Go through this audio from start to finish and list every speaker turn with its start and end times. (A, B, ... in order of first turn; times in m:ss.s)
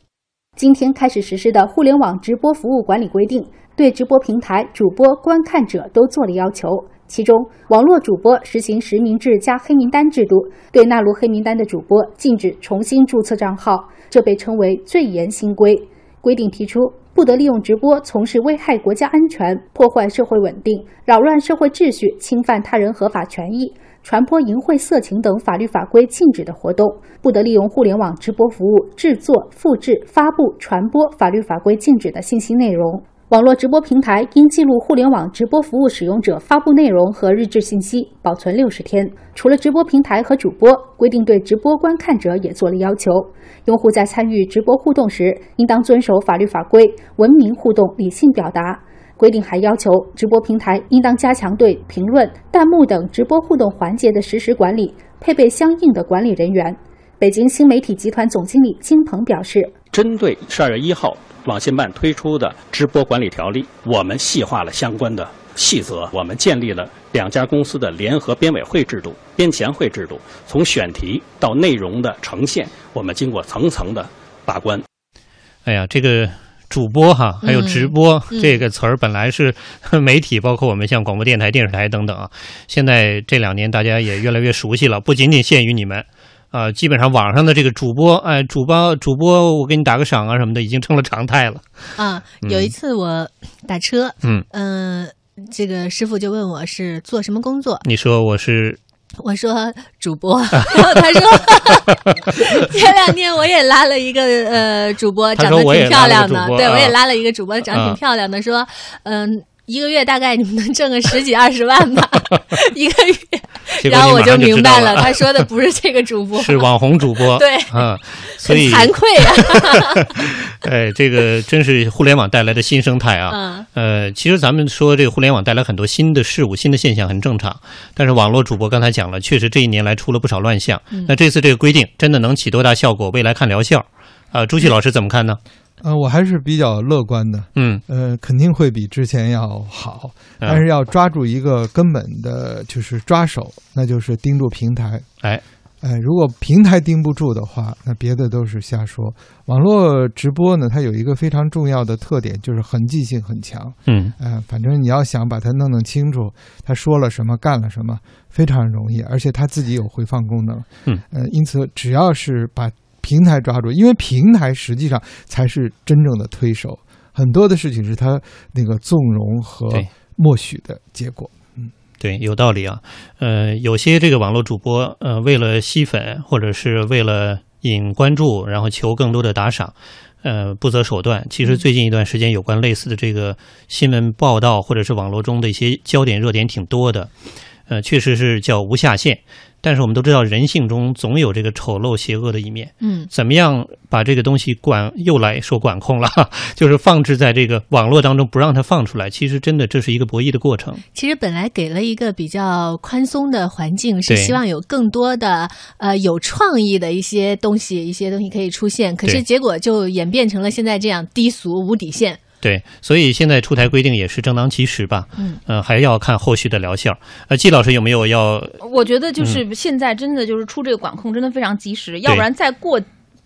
0:00.6-0:59.7 A
0:59.9-1:14.8 B
1:15.6-1:31.6 C
1:17.4-1:18.6 D
1:32.0-1:37.8 D
1:32.4-1:32.7 C
1:37.8-1:38.8 C
1:39.2-2:00.3 D
1:40.7-1:41.2 C
1:45.4-1:47.0 C
1:47.7-1:48.0 C
1:53.8-1:55.4 C
1:56.4-1:58.9 C
1:59.7-2:15.4 C
2:03.3-2:03.7 D
2:15.8-2:25.0 E
2:17.6-2:17.8 C
2:25.8-2:51.7 E
2:33.9-2:34.1 C
2:52.0-3:07.1 C
3:07.7-3:20.8 C
3:12.8-3:13.1 D
3:20.9-3:32.2 D
3:24.1-3:24.4 C
3:32.4-3:38.6 C
3:38.6-3:42.8 F